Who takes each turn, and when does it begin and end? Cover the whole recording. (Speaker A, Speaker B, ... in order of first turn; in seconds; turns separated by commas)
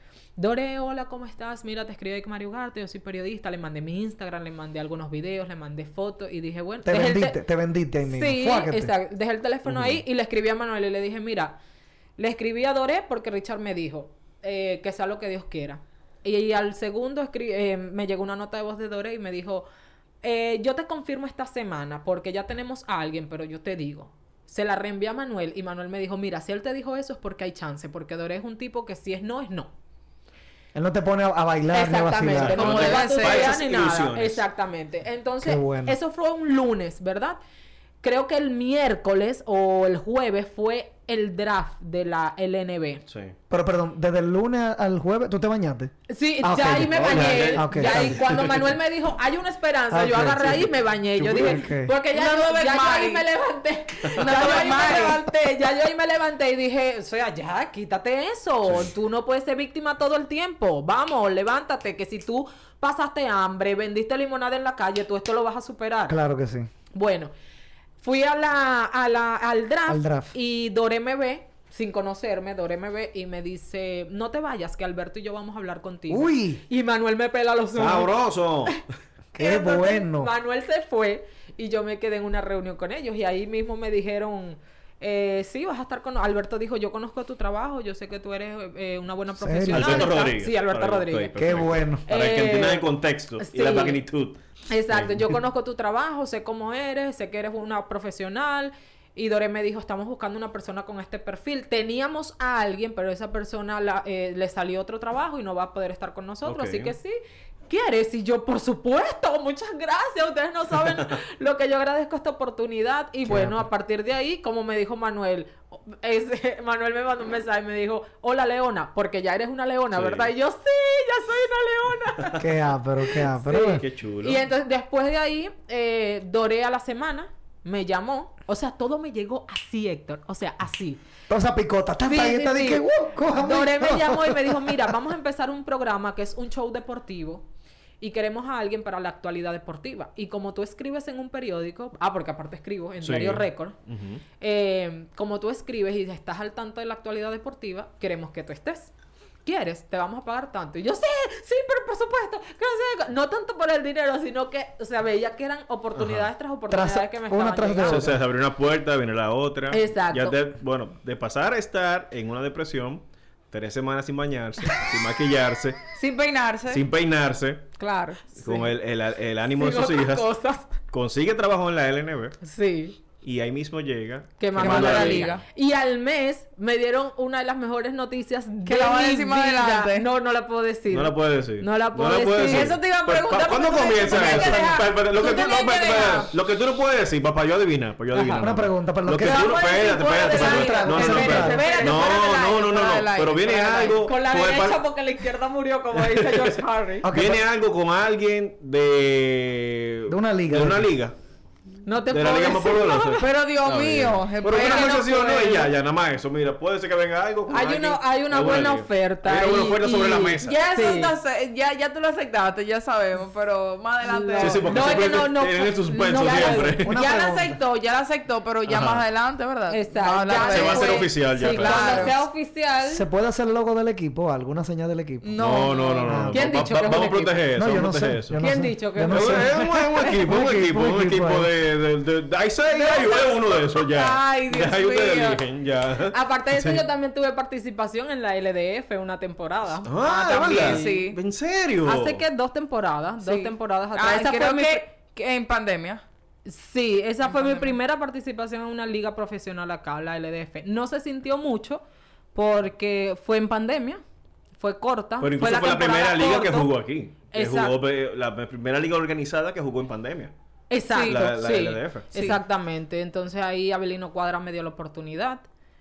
Speaker A: 0.4-7.4, Speaker B: 6.8-8.9, Speaker A: 8.0-11.6, Speaker C: 9.7-10.0, Speaker A: 12.2-19.6, Speaker A: 20.2-29.7, Speaker B: 30.7-32.6, Speaker A: 31.7-37.4, Speaker C: 32.4-34.4, Speaker D: 32.5-33.6, Speaker B: 35.4-36.0, Speaker A: 38.0-43.0, Speaker C: 43.1-43.4, Speaker B: 43.5-48.5, Speaker A: 46.1-66.2, Speaker C: 46.8-48.7, Speaker B: 49.9-51.9, Speaker C: 50.2-51.5, Speaker D: 52.1-53.2, Speaker D: 54.0-55.2, Speaker C: 54.2-54.5, Speaker B: 66.1-66.7, Speaker A: 66.9-67.3, Speaker A: 68.0-78.1, Speaker B: 69.9-70.3, Speaker B: 76.1-76.6, Speaker C: 77.8-78.8, Speaker A: 79.3-91.5, Speaker B: 79.3-80.3, Speaker B: 89.4-90.2, Speaker C: 89.7-95.3, Speaker B: 91.4-92.1, Speaker A: 92.0-94.0, Speaker A: 94.7-107.2, Speaker C: 106.4-106.9, Speaker A: 107.7-122.5, Speaker B: 113.2-113.7, Speaker C: 119.9-120.3, Speaker B: 122.4-123.8, Speaker A: 123.1-131.0, Speaker C: 123.5-124.4, Speaker B: 131.3-134.9, Speaker A: 132.0-137.4, Speaker A: 138.0-143.8, Speaker C: 143.0-144.2, Speaker A: 144.4-148.9, Speaker A: 149.4-158.1, Speaker C: 155.9-156.3, Speaker B: 156.7-158.2, Speaker C: 157.8-165.8, Speaker A: 159.7-160.4, Speaker D: 165.9-166.8, Speaker C: 166.7-167.7, Speaker A: 167.8-168.7, Speaker C: 168.4-170.3, Speaker A: 169.6-170.7, Speaker C: 170.9-172.4, Speaker A: 172.4-173.0, Speaker C: 173.2-175.3, Speaker A: 174.4-182.8, Speaker D: 174.6-175.4, Speaker D: 178.7-180.1, Speaker C: 180.9-194.8, Speaker D: 182.4-186.3, Speaker A: 183.9-184.8, Speaker A: 188.1-188.4, Speaker B: 188.3-189.6, Speaker D: 189.2-194.1, Speaker B: 190.3-191.6, Speaker A: 190.4-192.3, Speaker A: 193.9-197.1, Speaker C: 195.9-196.6, Speaker B: 197.0-197.4, Speaker C: 197.1-201.1, Speaker B: 200.1-200.9, Speaker A: 201.8-203.3, Speaker C: 202.1-210.6, Speaker D: 203.2-205.6, Speaker A: 204.6-205.7, Speaker A: 207.5-211.1, Speaker D: 210.4-215.2, Speaker A: 214.0-216.8, Speaker C: 214.4-217.0, Speaker D: 216.3-222.1, Speaker B: 216.8-217.6, Speaker C: 218.7-219.0, Speaker A: 219.7-223.0, Speaker C: 220.3-222.1, Speaker B: 222.9-226.6, Speaker D: 225.2-226.2, Speaker C: 225.4-228.4, Speaker A: 226.3-227.4, Speaker B: 227.6-231.5, Speaker A: 228.4-230.2, Speaker C: 229.0-236.8, Speaker D: 232.7-235.4, Speaker A: 236.1-241.0, Speaker C: 239.8-242.2, Speaker D: 240.3-241.2, Speaker A: 241.8-244.8, Speaker D: 243.2-246.0, Speaker A: 246.4-251.8, Speaker D: 247.2-247.8, Speaker A: 252.3-254.0, Speaker A: 254.6-256.7, Speaker C: 255.2-260.3, Speaker A: 257.3-257.8, Speaker A: 260.7-265.4, Speaker D: 260.9-261.2, Speaker C: 261.0-262.4